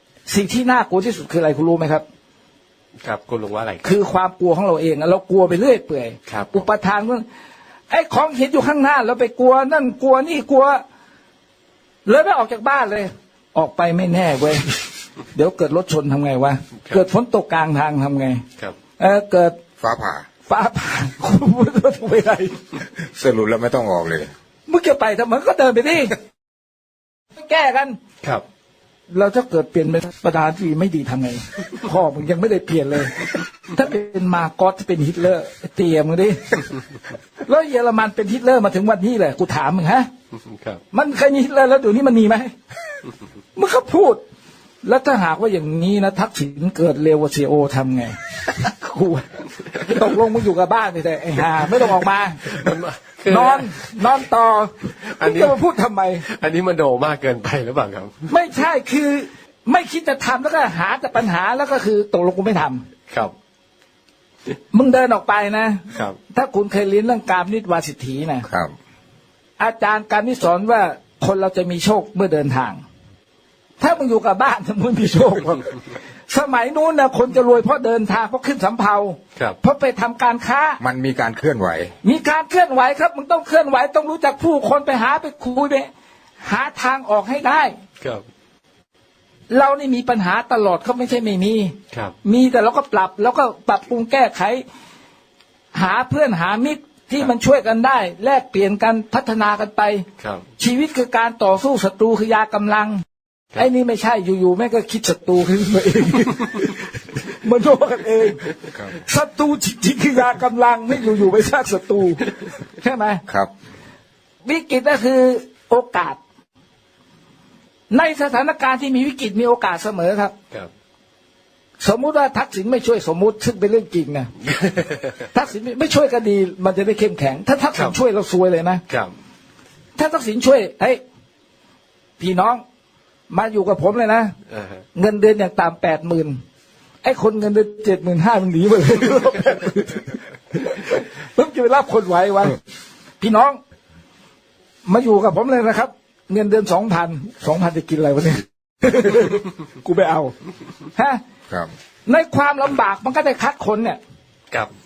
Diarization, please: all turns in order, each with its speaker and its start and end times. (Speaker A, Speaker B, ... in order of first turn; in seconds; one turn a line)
Speaker A: 0.3-2.0
Speaker B: 3.0-3.9
Speaker A: 3.8-7.2
Speaker B: 6.3-6.7
Speaker A: 7.9-10.8
Speaker A: 12.1-18.4
Speaker A: 19.0-19.6
Speaker C: 19.8-20.2
Speaker A: 20.5-22.7
Speaker C: 23.0-24.3
Speaker A: 24.7-26.2
Speaker A: 27.3-28.0
Speaker A: 29.1-36.7
Speaker A: 37.4-40.1
Speaker B: 40.4-40.8
Speaker A: 40.9-42.5
Speaker A: 43.5-44.2
Speaker A: 44.8-52.4
Speaker B: 51.8-53.9
Speaker A: 53.3-56.2
Speaker B: 55.0-55.6
Speaker B: 56.2-58.3
Speaker A: 58.3-62.8
Speaker A: 64.7-68.5
Speaker B: 65.9-66.2
Speaker C: 68.4-68.7
Speaker A: 69.6-72.8
Speaker A: 73.8-80.8
Speaker C: 80.8-82.0
Speaker A: 82.0-85.9
Speaker A: 86.4-87.8
Speaker A: 89.5-94.6
Speaker B: 91.9-92.2
Speaker A: 95.7-100.0
Speaker B: 100.2-100.5
Speaker A: 100.6-103.0
Speaker A: 103.5-113.2
Speaker A: 114.4-116.2
Speaker A: 117.9-120.3
Speaker A: 121.8-124.3
Speaker B: 124.4-125.2
Speaker A: 125.3-128.8
Speaker B: 128.9-129.1
Speaker A: 129.9-131.0
Speaker A: 132.2-132.6
Speaker A: 133.3-134.3
Speaker B: 134.5-134.8
Speaker A: 134.9-136.4
Speaker A: 137.0-142.6
Speaker A: 143.2-143.6
Speaker A: 144.8-150.3
Speaker A: 150.9-151.2
Speaker A: 152.1-154.0